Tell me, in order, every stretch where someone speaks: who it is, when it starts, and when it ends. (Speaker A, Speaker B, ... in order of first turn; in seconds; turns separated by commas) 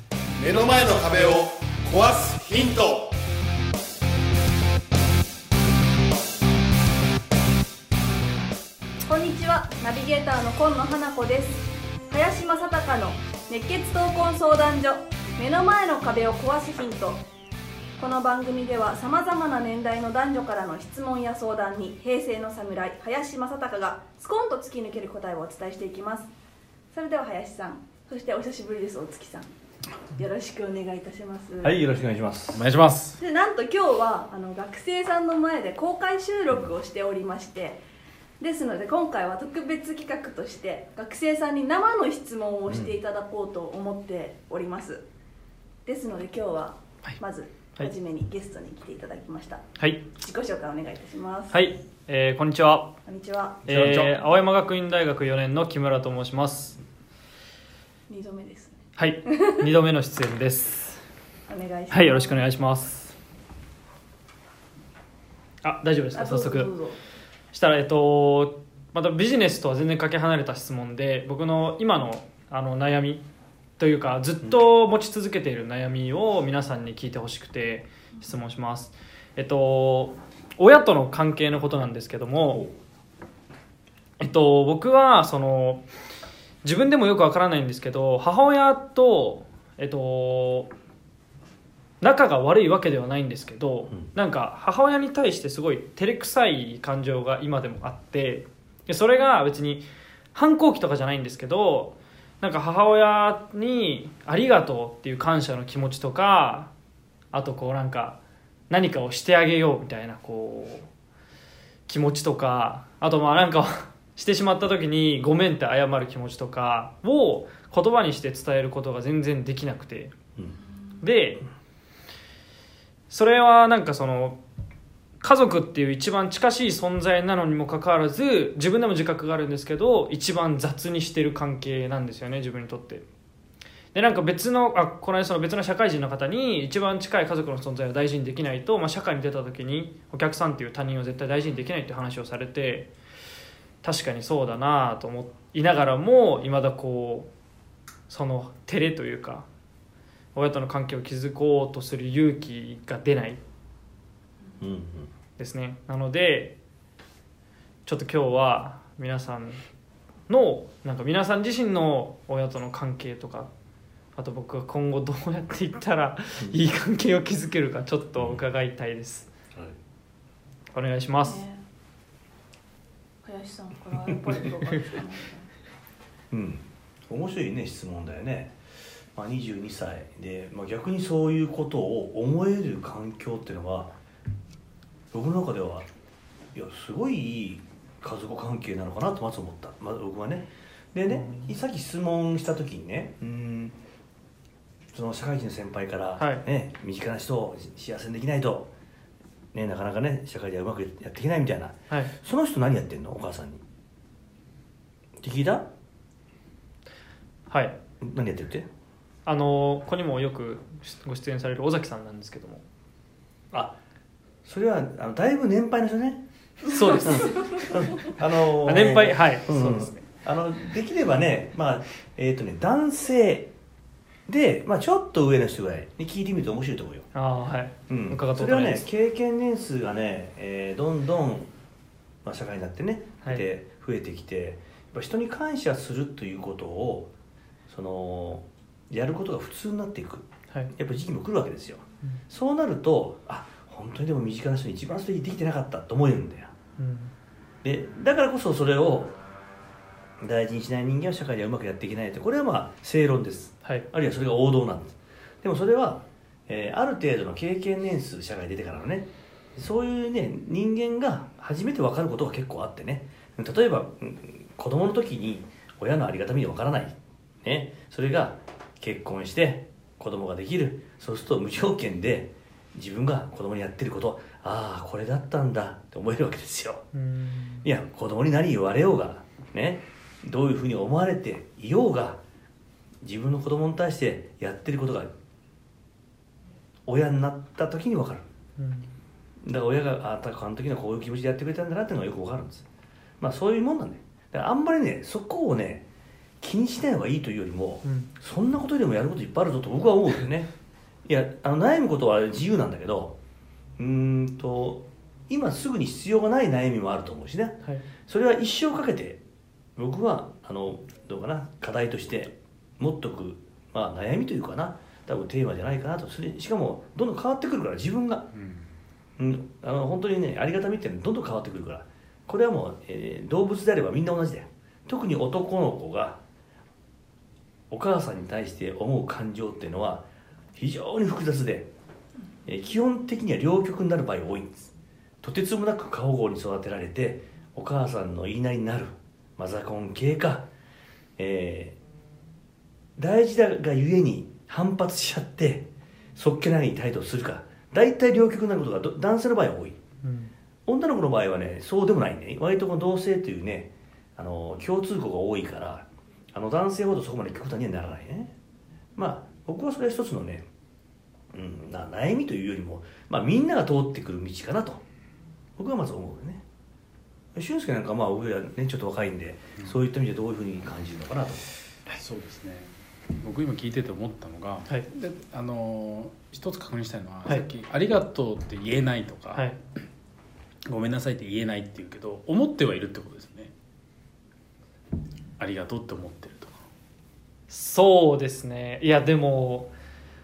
Speaker A: 0.4-3.1, Speaker B: 9.0-17.2, Speaker B: 18.0-26.3, Speaker B: 26.9-29.5, Speaker B: 30.1-31.7, Speaker C: 31.6-32.6, Speaker D: 32.5-33.2, Speaker B: 33.2-37.8, Speaker B: 38.4-45.0, Speaker C: 42.7-42.9, Speaker B: 45.9-49.6, Speaker E: 49.8-50.0, Speaker B: 50.2-51.6, Speaker E: 51.5-52.9, Speaker B: 53.0-53.6, Speaker D: 53.6-54.1, Speaker E: 53.7-56.8, Speaker B: 58.1-58.8, Speaker E: 59.0-61.0, Speaker B: 61.5-62.4, Speaker E: 61.9-63.1, Speaker E: 65.6-66.7, Speaker B: 66.1-67.0, Speaker E: 67.5-73.2, Speaker E: 73.8-82.7, Speaker E: 84.2-85.8, Speaker E: 86.6-90.7, Speaker E: 92.0-106.7, Speaker E: 107.3-108.2, Speaker E: 108.7-110.9, Speaker E: 111.9-120.1, Speaker E: 121.0-121.4, Speaker E: 123.1-124.4, Speaker E: 125.2-133.0, Speaker E: 133.9-142.9, Speaker E: 143.8-147.3, Speaker E: 148.1-149.5, Speaker E: 150.3-153.4, Speaker C: 154.6-155.1, Speaker E: 155.4-156.5, Speaker E: 157.8-159.6, Speaker E: 160.3-163.5, Speaker E: 164.2-169.3, Speaker C: 168.2-168.4, Speaker E: 170.7-171.4, Speaker B: 171.2-171.6, Speaker B: 173.2-175.5, Speaker C: 176.3-178.6, Speaker C: 179.1-183.9, Speaker C: 185.1-185.8, Speaker C: 186.5-193.8, Speaker E: 191.1-191.5, Speaker C: 194.9-198.7, Speaker E: 196.2-196.4, Speaker C: 199.5-203.6, Speaker C: 205.2-205.7, Speaker E: 207.5-207.7, Speaker C: 208.0-208.7, Speaker E: 209.2-212.6, Speaker C: 213.5-213.8, Speaker C: 214.4-216.2, Speaker E: 216.7-218.0, Speaker C: 216.9-223.5, Speaker E: 218.6-220.1, Speaker C: 224.3-227.1, Speaker E: 227.1-228.8, Speaker C: 227.9-231.5, Speaker C: 232.2-237.1, Speaker C: 237.7-246.5, Speaker E: 246.8-247.1, Speaker C: 247.6-249.2, Speaker C: 250.2-276.8, Speaker E: 276.9-277.7, Speaker C: 277.6-282.2, Speaker C: 283.0-285.1, Speaker C: 286.9-288.2, Speaker E: 288.6-288.9, Speaker C: 289.4-292.7, Speaker C: 293.2-295.9, Speaker C: 296.4-300.5, Speaker E: 297.8-298.1, Speaker C: 301.1-303.1, Speaker C: 303.8-309.2, Speaker C: 309.8-318.2, Speaker D: 318.3-318.6, Speaker C: 319.2-326.2, Speaker C: 327.7-331.7, Speaker C: 332.4-334.7, Speaker C: 335.2-340.4, Speaker C: 341.2-341.8, Speaker C: 343.0-349.8, Speaker E: 350.0-350.3, Speaker C: 350.6-358.3, Speaker C: 358.9-360.5, Speaker C: 361.3-364.8, Speaker C: 365.6-366.4, Speaker C: 367.3-371.5, Speaker D: 371.9-379.4, Speaker D: 380.6-383.5, Speaker D: 385.4-386.5, Speaker E: 387.5-389.7